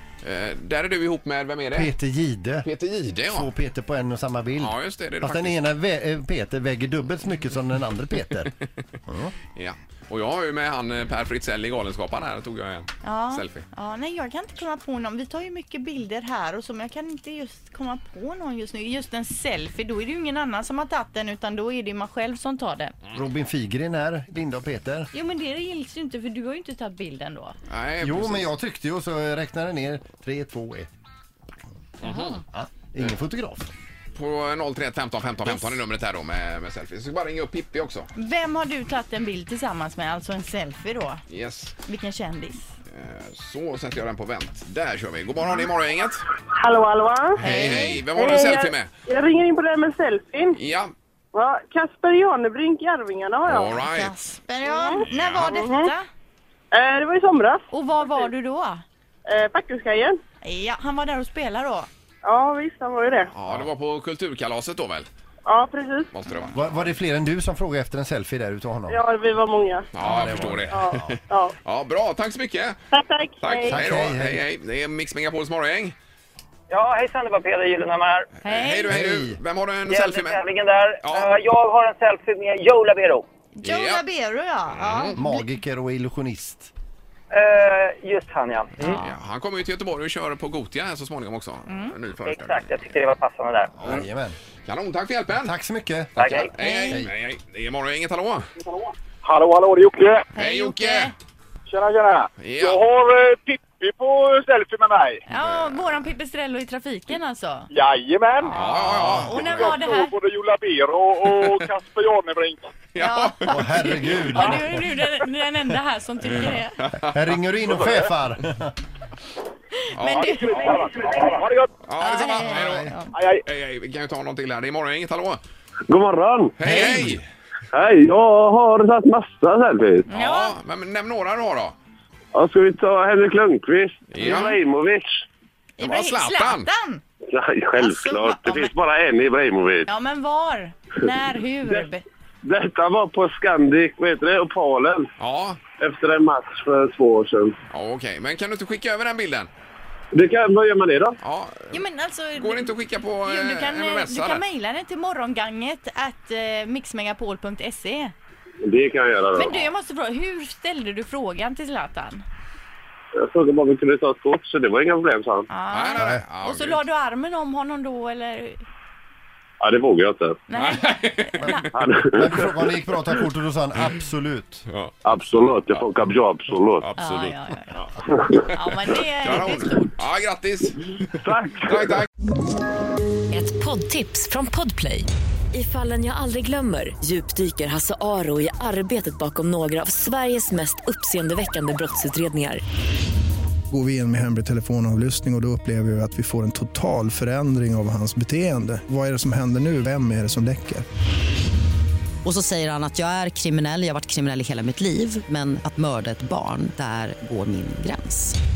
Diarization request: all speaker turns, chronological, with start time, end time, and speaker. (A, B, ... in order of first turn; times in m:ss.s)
0:00.2-0:01.9 A
0:01.7-0:02.7 B
0:02.6-0:03.5 A
0:03.3-0:08.5 B
0:04.6-0:05.7 A
0:09.0-0:09.3 B
0:09.6-0:13.6 A
0:13.0-0:22.9 C
0:23.1-0:25.1 B
0:25.1-0:27.5 C
0:27.7-0:28.5 A
0:28.0-0:30.9 B
0:32.0-0:32.4 A
0:32.0-0:32.4 C
0:32.5-0:33.7 B
0:34.2-0:38.1 A
0:38.2-0:41.2 C
0:41.3-0:41.8 A
0:41.8-0:42.7 C
0:42.9-0:46.3 A
0:46.5-0:47.4 D
0:47.4-0:48.0 C
0:47.4-0:48.9 A
0:47.5-0:47.9 B
0:48.1-0:50.6 D
0:50.5-0:50.9 A
0:51.3-0:53.8 D
0:53.5-0:54.1 A
0:53.8-0:56.0 C
0:54.6-0:55.9 D
0:55.0-0:55.5 A
0:56.7-0:57.7 D
0:57.7-0:58.8 C
0:59.3-1:00.2 D
1:00.4-1:01.9 C
1:02.2-1:03.3 D
1:03.4-1:05.1 A
1:05.5-1:06.1 D
1:06.1-1:06.9 A
1:06.5-1:09.0 B
1:08.9-1:09.9 D
1:09.9-1:12.8 A
1:10.0-1:11.2 B
1:10.7-1:11.5 D
1:12.9-1:13.8 D
1:13.4-1:15.9 A
1:13.6-1:14.4 B
1:16.7-1:18.3 E
1:18.4-1:19.0 C
1:18.4-1:20.4 A
1:18.9-1:19.4 B
1:19.9-1:23.2 E
1:21.0-1:21.4 A
1:23.5-1:25.5 C
1:23.6-1:24.0 A
1:24.7-1:25.2 A
1:25.1-1:26.7 B
1:27.3-1:29.0 E
1:28.8-1:32.7 A
1:28.8-1:29.2 C
1:31.7-1:32.0 C
1:32.2-1:33.9 E
1:33.8-1:34.4 B
1:34.6-1:35.5 A
1:35.3-1:37.1 B
1:36.2-1:38.5 A
1:36.2-1:36.5 E
1:36.6-1:37.0 C
1:39.2-1:40.3 F
1:40.3-1:41.1 C
1:40.4-1:41.1 A
1:41.7-1:45.2 F
1:42.4-1:42.8 A
1:45.3-1:47.7 C
1:47.7-1:52.6 F
1:48.4-1:50.1 C
1:48.5-1:49.9 A
1:51.2-1:51.7 A
1:52.9-1:54.6 A
1:53.0-1:56.8 C
1:53.5-1:54.8 B
1:56.8-1:57.2 A
1:57.0-1:58.7 B
1:59.9-2:00.6 A
2:00.0-2:00.9 C
2:00.6-2:01.7 F
2:01.8-2:02.9 A
2:02.0-2:03.1 C
2:02.4-2:02.9 B
2:03.1-2:03.4 F
2:03.4-2:05.4 A
2:05.9-2:06.5 G
2:06.6-2:07.2 A
2:06.6-2:07.2 B
2:07.7-2:10.0 G
2:10.1-2:11.8 A
2:10.1-2:10.6 C
2:12.3-2:15.2 G
2:14.1-2:14.6 A
2:14.2-2:14.5 C
2:15.8-2:17.0 C
2:15.8-2:16.7 A
2:17.3-2:19.9 G
2:17.8-2:18.7 C
2:19.9-2:22.0 C
2:22.4-2:25.1 G
2:25.2-2:25.6 A
2:25.8-2:27.5 G
2:27.7-2:29.5 A
2:30.1-2:31.1 G
2:31.2-2:34.4 A
2:31.7-2:38.1 C
2:38.6-2:39.6 G
2:39.3-2:42.2 C
2:43.2-2:45.4 G
2:45.5-2:48.6 C
2:45.7-2:46.8 A
2:49.6-2:50.4 G
2:50.5-2:51.7 C
2:50.5-2:51.6 A
2:51.4-2:54.6 B
2:51.8-2:52.5 G
2:54.7-2:54.9 A
2:55.0-2:56.9 G
2:56.8-2:57.4 A
2:57.0-2:57.8 C
2:58.4-3:00.0 C
2:58.5-3:01.1 A
3:01.2-3:02.0 G
3:01.6-3:02.1 A
3:03.3-3:12.6 H
3:13.7-3:20.8 I
3:22.2-3:28.3 J